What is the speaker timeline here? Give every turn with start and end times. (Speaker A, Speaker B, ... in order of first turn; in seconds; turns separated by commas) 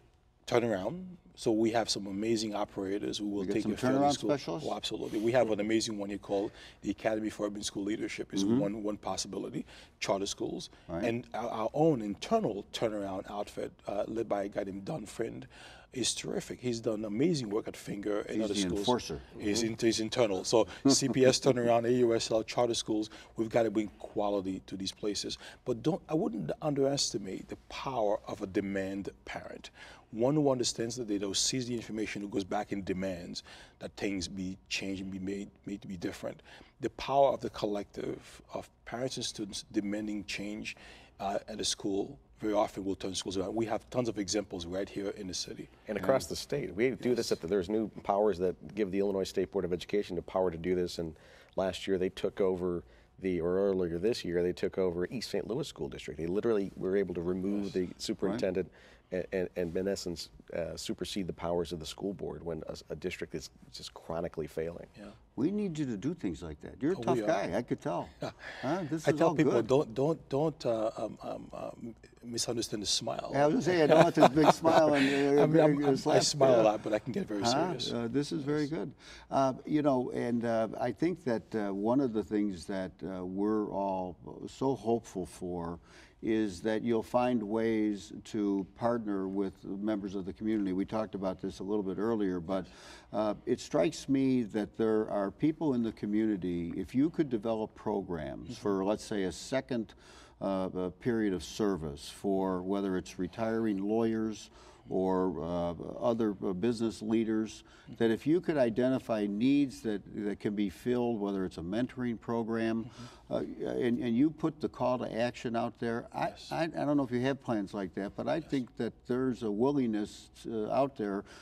Speaker A: 0.5-46.1, Speaker B: 3.4-4.7, Speaker B: 8.3-8.7, Speaker B: 18.3-19.3, Speaker C: 45.9-64.9, Speaker B: 65.4-69.7, Speaker A: 67.0-67.4, Speaker A: 68.2-78.0, Speaker B: 73.3-76.7, Speaker B: 77.4-121.2